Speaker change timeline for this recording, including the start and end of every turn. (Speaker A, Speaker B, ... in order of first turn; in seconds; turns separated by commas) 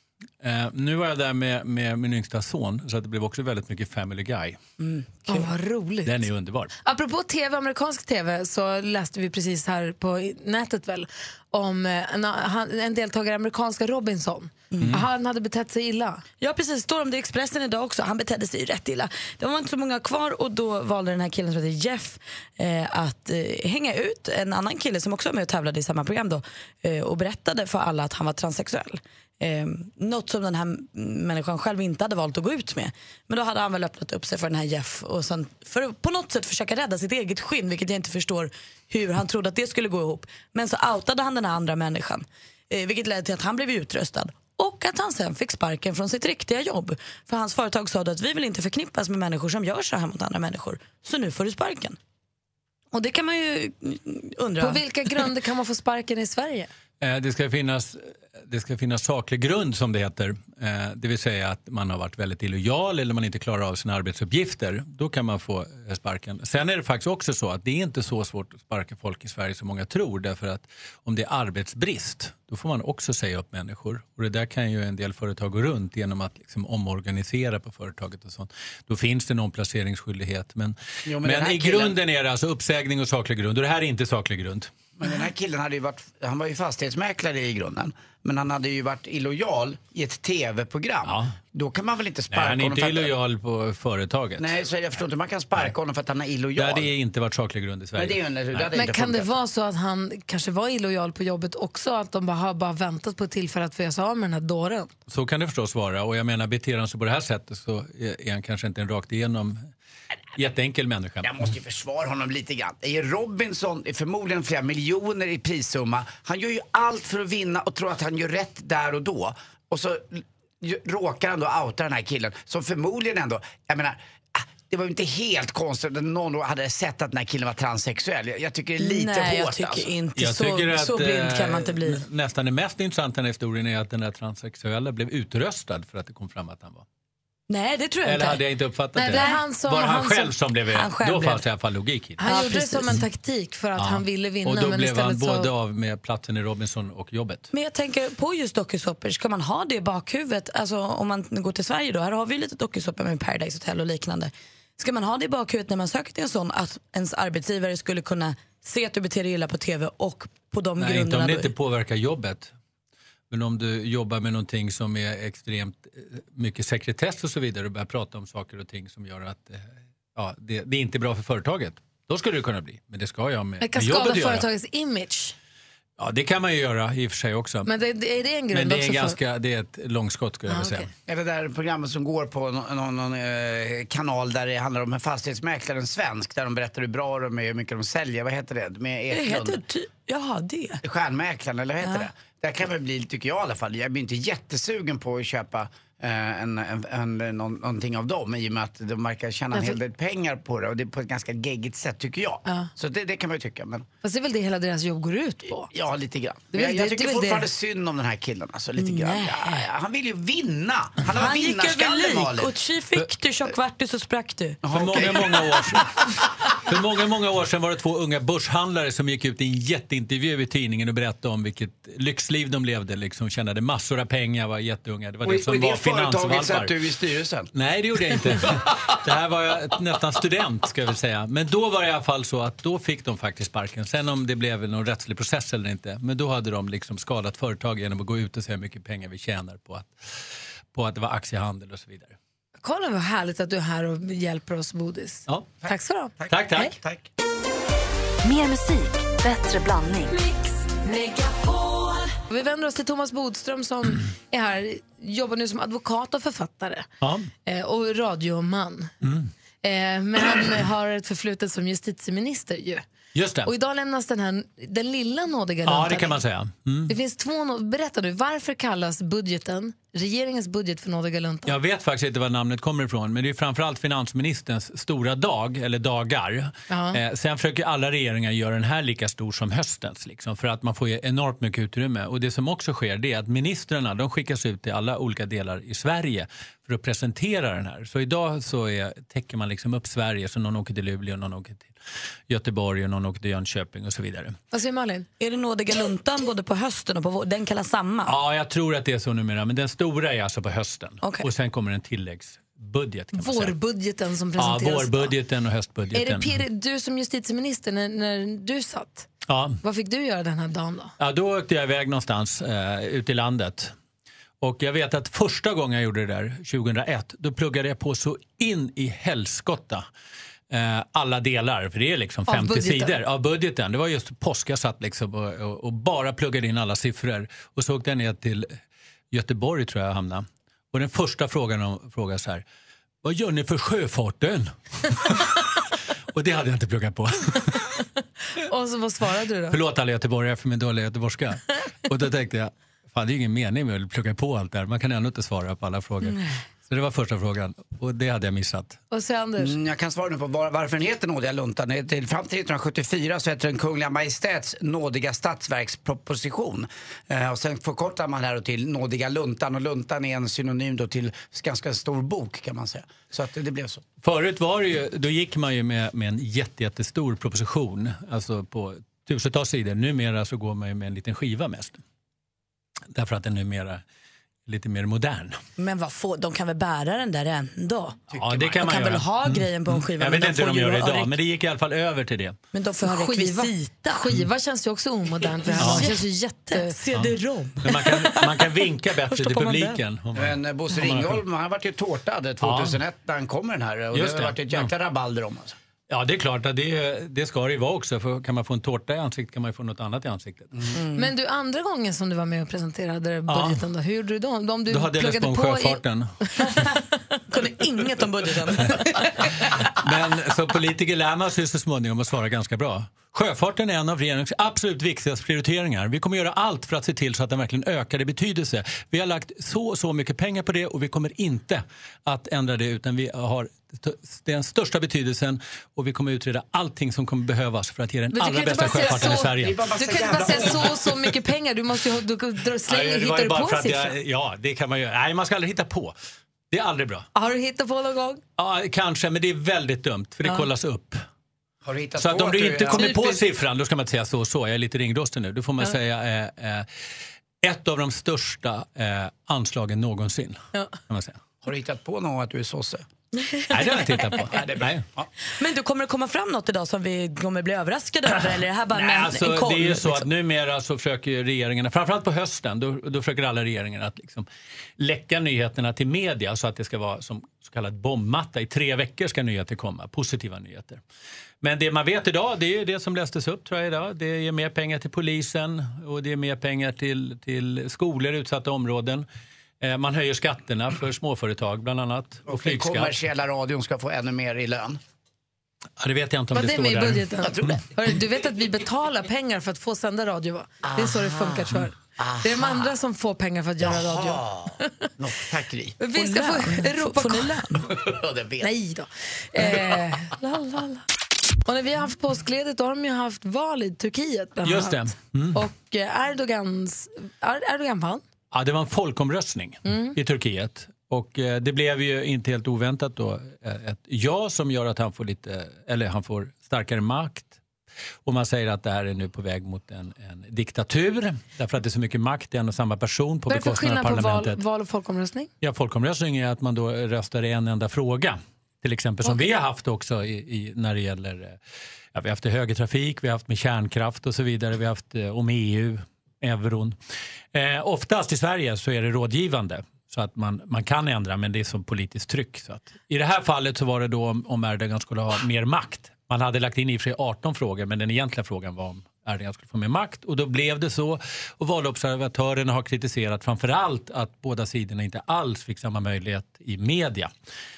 Speaker A: 0.4-4.6, Speaker B: 4.8-5.5, Speaker C: 5.3-6.3, Speaker A: 6.0-6.7, Speaker C: 6.8-16.2, Speaker B: 14.7-15.0, Speaker B: 16.4-52.0, Speaker B: 52.9-55.3, Speaker C: 54.6-56.7, Speaker A: 57.0-84.7, Speaker D: 81.0-82.0, Speaker D: 85.0-93.1, Speaker A: 91.0-91.3, Speaker A: 92.3-94.5, Speaker D: 94.4-96.9, Speaker A: 96.5-98.7, Speaker D: 98.0-99.3, Speaker C: 98.7-104.9, Speaker A: 105.1-109.7, Speaker A: 110.3-111.5, Speaker D: 111.2-129.9, Speaker B: 128.8-132.1, Speaker A: 130.2-136.8, Speaker B: 137.5-138.4, Speaker A: 138.0-142.2, Speaker C: 138.9-140.3, Speaker B: 139.1-139.4, Speaker B: 140.7-141.4, Speaker C: 142.2-145.5, Speaker B: 142.2-143.0, Speaker A: 143.7-147.5, Speaker B: 147.5-161.5, Speaker A: 160.8-162.5, Speaker A: 163.3-174.5, Speaker C: 173.6-175.3, Speaker A: 176.0-177.7, Speaker C: 177.7-179.2, Speaker A: 178.5-180.9, Speaker C: 180.5-180.9, Speaker D: 181.1-189.6, Speaker B: 189.1-190.8, Speaker D: 190.8-203.9, Speaker B: 191.8-192.1, Speaker C: 204.0-205.7, Speaker D: 205.7-212.5, Speaker C: 206.5-207.4, Speaker B: 208.8-209.7, Speaker B: 211.1-214.6, Speaker D: 214.6-215.8, Speaker A: 214.7-215.9, Speaker A: 216.6-226.7, Speaker D: 225.2-227.5, Speaker A: 227.5-240.2, Speaker A: 240.7-242.1, Speaker C: 242.6-246.7, Speaker D: 245.6-247.1, Speaker A: 246.3-246.7, Speaker E: 248.2-252.0, Speaker C: 252.3-256.9, Speaker A: 257.0-257.3, Speaker C: 257.4-258.9, Speaker A: 259.0-259.3, Speaker C: 259.6-262.8, Speaker A: 263.1-263.5, Speaker C: 263.4-266.2, Speaker A: 265.6-266.9, Speaker C: 266.9-271.6, Speaker A: 271.4-291.7, Speaker C: 276.7-277.0, Speaker A: 292.3-294.4, Speaker C: 294.5-295.1, Speaker B: 295.2-298.2, Speaker A: 298.1-303.6, Speaker B: 301.0-301.3, Speaker C: 303.1-305.1, Speaker A: 304.4-306.4, Speaker C: 305.9-309.1, Speaker A: 309.3-309.6, Speaker C: 309.6-310.9, Speaker A: 311.0-313.7, Speaker A: 314.4-319.9, Speaker A: 320.5-328.6, Speaker C: 322.3-323.0, Speaker A: 329.1-332.4, Speaker A: 333.0-335.6, Speaker A: 336.1-337.7, Speaker C: 338.4-339.6, Speaker A: 339.5-348.8, Speaker C: 348.9-349.5, Speaker D: 349.4-363.8, Speaker A: 364.0-371.8, Speaker A: 372.9-373.8, Speaker A: 374.4-375.4, Speaker B: 375.6-381.1, Speaker D: 378.1-378.5, Speaker A: 378.1-382.4, Speaker B: 382.5-384.1, Speaker C: 382.8-386.7, Speaker B: 385.4-389.8, Speaker A: 385.6-385.9, Speaker A: 386.9-391.2, Speaker D: 390.1-395.5, Speaker A: 392.4-392.8, Speaker A: 393.9-394.7, Speaker A: 395.9-400.5, Speaker B: 400.7-401.1, Speaker C: 400.9-406.7, Speaker A: 403.3-403.6, Speaker A: 404.7-406.6, Speaker B: 407.3-409.3, Speaker A: 409.4-429.6, Speaker C: 428.1-433.9, Speaker D: 428.6-430.9, Speaker A: 432.6-435.9, Speaker A: 436.5-437.1, Speaker C: 437.1-438.2, Speaker A: 438.4-441.0, Speaker D: 441.6-443.0, Speaker A: 442.0-446.7, Speaker C: 442.7-443.2, Speaker A: 447.4-451.2, Speaker D: 451.4-452.8, Speaker B: 453.1-454.1, Speaker A: 453.5-454.8, Speaker D: 454.1-455.1, Speaker B: 455.4-460.1, Speaker A: 458.7-464.3, Speaker A: 464.8-470.8, Speaker A: 471.4-479.1, Speaker A: 479.6-482.9, Speaker D: 482.2-484.8, Speaker A: 485.8-487.5, Speaker C: 486.3-494.9, Speaker D: 487.2-487.6, Speaker D: 490.6-492.7, Speaker D: 493.6-495.8, Speaker C: 495.8-497.4, Speaker B: 495.9-497.7, Speaker D: 497.7-498.5, Speaker C: 498.4-500.8, Speaker C: 501.4-508.0, Speaker A: 504.4-505.4, Speaker A: 508.3-517.4, Speaker C: 509.7-509.9, Speaker A: 518.0-524.4, Speaker C: 523.3-525.3, Speaker A: 525.4-531.4, Speaker C: 529.0-529.3, Speaker A: 531.9-536.8, Speaker A: 537.3-557.1